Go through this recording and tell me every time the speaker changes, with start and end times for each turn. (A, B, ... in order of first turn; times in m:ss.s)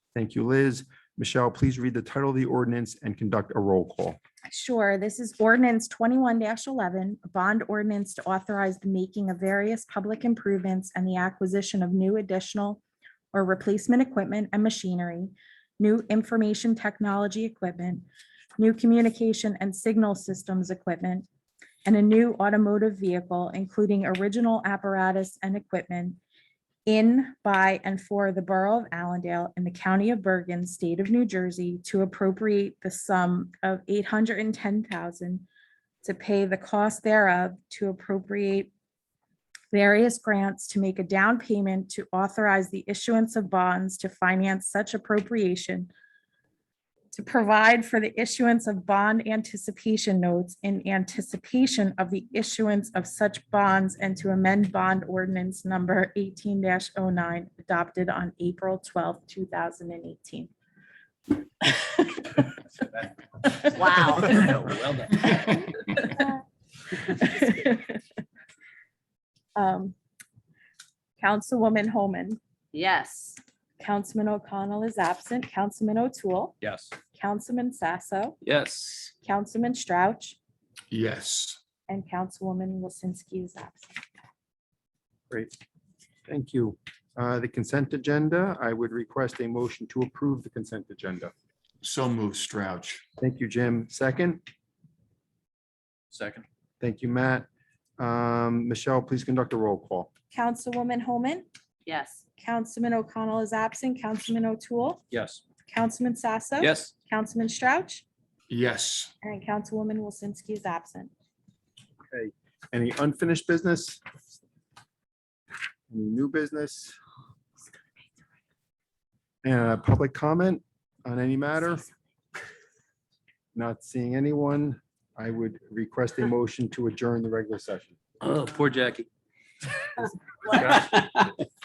0:00.1-0:04.2 A
0:04.4-0:12.8 B
0:13.3-0:18.0 B
0:18.6-0:21.2 B
0:21.8-0:26.2 B
0:26.8-0:35.4 B
0:36.0-0:38.7 B
0:39.7-0:45.9 B
0:47.1-1:00.5 B
1:01.6-1:02.4 B
1:03.7-1:04.8 C
1:04.2-1:05.6 D
1:06.0-1:06.4 B
1:07.0-1:08.0 B
1:09.6-1:09.9 B
1:11.2-1:12.4 B
1:12.7-1:13.4 C
1:13.8-1:16.6 B
1:16.6-1:16.9 D
1:17.1-1:18.4 B
1:18.4-1:19.1 D
1:19.2-1:20.4 B
1:20.9-1:21.6 E
1:21.9-1:23.9 B
1:26.3-1:31.3 A
1:31.8-1:33.0 E
1:33.2-1:34.4 A
1:36.1-1:36.4 D
1:36.8-1:37.5 A
1:38.0-1:40.1 A
1:40.3-1:41.4 B
1:41.8-1:42.2 C
1:42.4-1:45.0 B
1:45.1-1:45.4 D
1:45.7-1:48.0 B
1:46.6-1:46.9 D
1:48.5-1:49.1 E
1:49.2-1:51.1 B
1:52.1-1:54.0 A
1:55.9-1:57.0 A
1:59.4-2:01.9 A
2:03.5-2:08.0 A
2:08.2-2:09.1 D
2:10.5-2:11.1 C